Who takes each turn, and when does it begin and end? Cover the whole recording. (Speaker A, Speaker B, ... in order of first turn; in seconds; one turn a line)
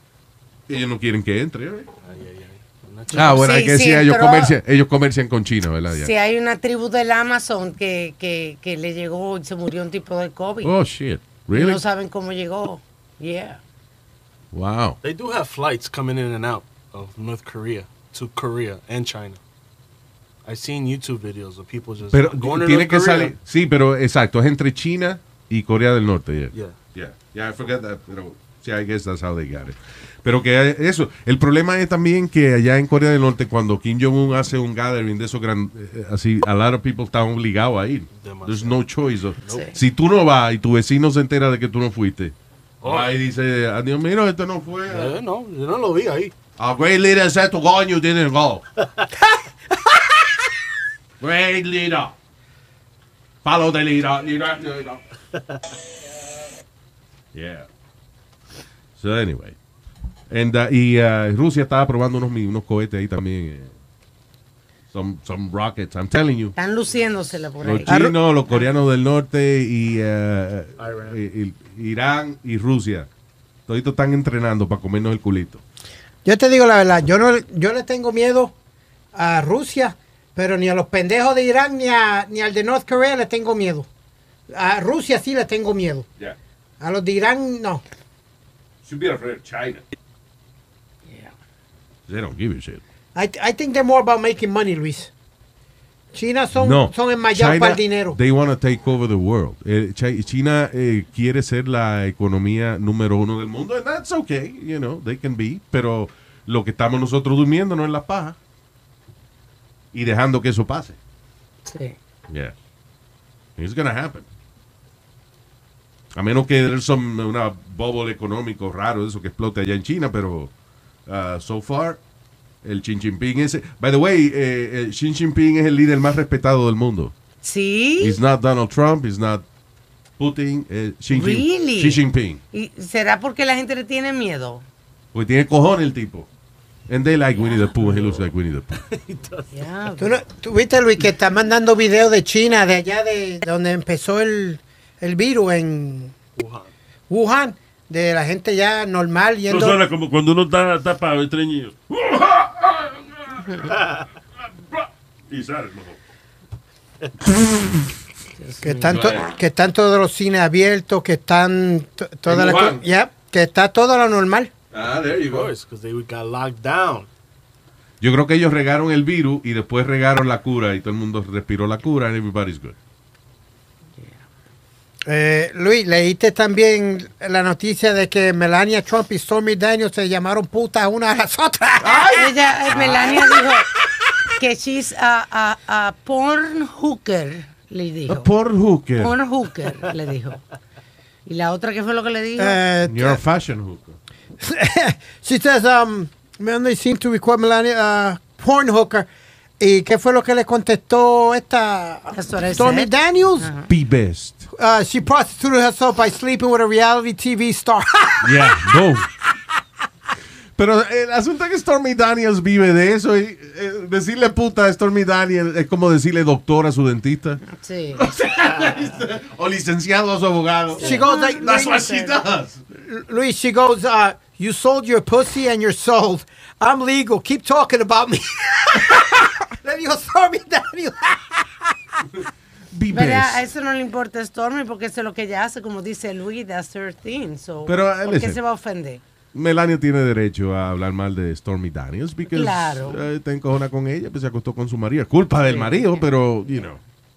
Speaker A: 0.7-1.9
Speaker B: 2.0-3.6
Speaker A: 3.1-6.1
Speaker C: 3.1-4.6
Speaker C: 5.9-10.8
Speaker A: 10.6-11.8
Speaker C: 11.5-13.6
Speaker A: 14.5-15.0
Speaker B: 15.0-19.4
Speaker B: 20.4-23.3
Speaker A: 22.1-45.2
Speaker B: 26.5-26.8
Speaker B: 38.1-38.8
Speaker C: 39.5-39.8
Speaker B: 42.8-43.1
Speaker B: 44.9-46.3
Speaker A: 46.6-48.6
Speaker A: 51.2-52.1
Speaker A: 53.4-55.0
Speaker A: 57.3-57.7
Speaker A: 59.0-59.5
Speaker A: 60.3-63.7
Speaker A: 64.9-66.5
Speaker C: 66.5-68.7
Speaker A: 67.6-73.1
Speaker D: 67.9-68.2
Speaker B: 70.8-71.1
Speaker A: 73.7-75.6
Speaker D: 76.2-78.5
Speaker D: 79.1-83.9
Speaker D: 84.5-86.0
Speaker D: 86.8-87.8
Speaker A: 88.8-89.8
Speaker C: 91.1-91.3
Speaker A: 92.1-92.8
Speaker D: 93.1-95.1
Speaker D: 96.1-98.2
Speaker A: 96.5-108.4
Speaker A: 109.9-111.0
Speaker C: 111.7-112.0
Speaker A: 112.3-112.5
Speaker A: 113.6-114.3
Speaker A: 116.1-120.5
Speaker A: 121.0-122.0
Speaker A: 122.6-127.1
Speaker C: 127.4-128.2
Speaker A: 128.0-129.4
Speaker A: 130.2-132.4
Speaker C: 131.1-134.6
Speaker A: 135.1-136.3
Speaker A: 136.9-138.8
Speaker B: 137.8-139.5
Speaker C: 139.5-140.2
Speaker D: 140.0-146.2
Speaker B: 146.3-146.7
Speaker D: 147.1-149.8
Speaker E: 149.5-153.7
Speaker E: 154.7-156.0
Speaker C: 158.4-159.0
Speaker D: 158.6-164.5
Speaker A: 158.9-159.2
Speaker A: 162.2-162.8
Speaker A: 164.7-165.5
Speaker B: 165.0-167.1
Speaker A: 168.0-172.7
Speaker D: 175.1-182.2
Speaker A: 181.8-183.2
Speaker C: 182.1-183.7
Speaker C: 184.4-188.3
Speaker A: 188.1-189.1
Speaker C: 189.0-190.4
Speaker C: 191.2-192.6
Speaker D: 192.4-193.2
Speaker A: 192.8-193.9
Speaker D: 194.4-199.1
Speaker D: 199.6-203.5
Speaker C: 202.1-203.7
Speaker A: 203.7-204.5
Speaker D: 204.6-208.7
Speaker A: 208.2-209.1
Speaker A: 210.6-217.4
Speaker C: 217.5-218.1
Speaker A: 217.9-222.6
Speaker C: 220.8-222.1
Speaker D: 220.8-222.1
Speaker D: 222.7-232.1
Speaker A: 232.7-233.4
Speaker C: 232.9-239.0
Speaker A: 237.7-238.4
Speaker A: 239.3-246.8
Speaker C: 242.3-243.0
Speaker C: 245.4-246.1